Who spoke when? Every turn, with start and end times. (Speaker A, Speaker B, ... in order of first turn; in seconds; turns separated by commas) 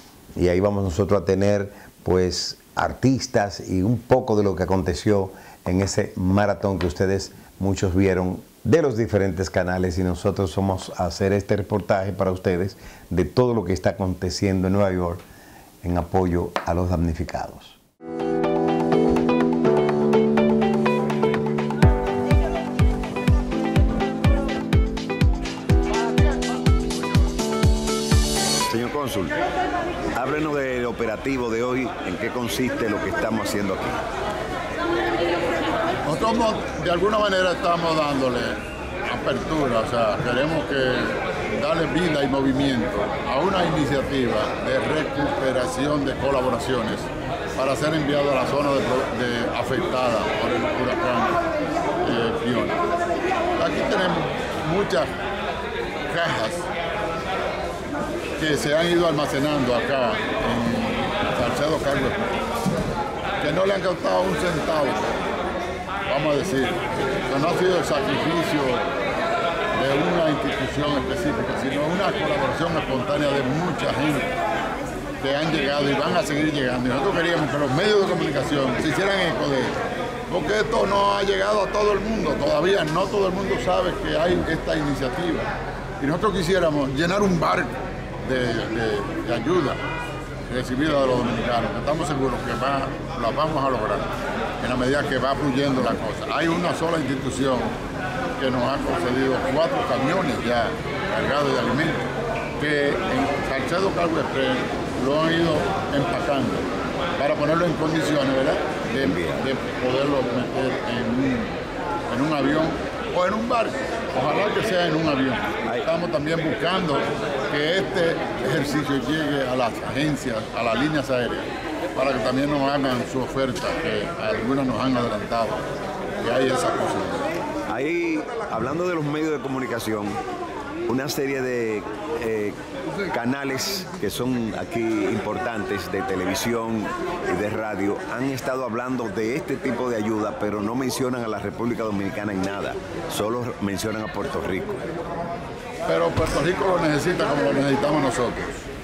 Speaker A: 0.3-15.2, Speaker A: 15.8-17.8, Speaker A: 28.7-29.4, Speaker A: 30.1-34.0, Speaker B: 36.0-51.4, Speaker B: 52.0-52.9, Speaker B: 53.6-55.1, Speaker B: 56.1-56.6, Speaker B: 58.4-62.2, Speaker B: 63.4-65.2, Speaker B: 66.1-68.9, Speaker B: 69.7-74.3, Speaker B: 75.2-79.8, Speaker B: 80.3-85.5, Speaker B: 86.0-89.8, Speaker B: 90.5-97.8, Speaker B: 98.4-102.1, Speaker B: 102.6-111.5, Speaker A: 109.0-109.5, Speaker B: 112.1-125.7, Speaker B: 126.2-127.3, Speaker A: 127.7-130.2, Speaker A: 130.9-144.8, Speaker B: 145.9-148.6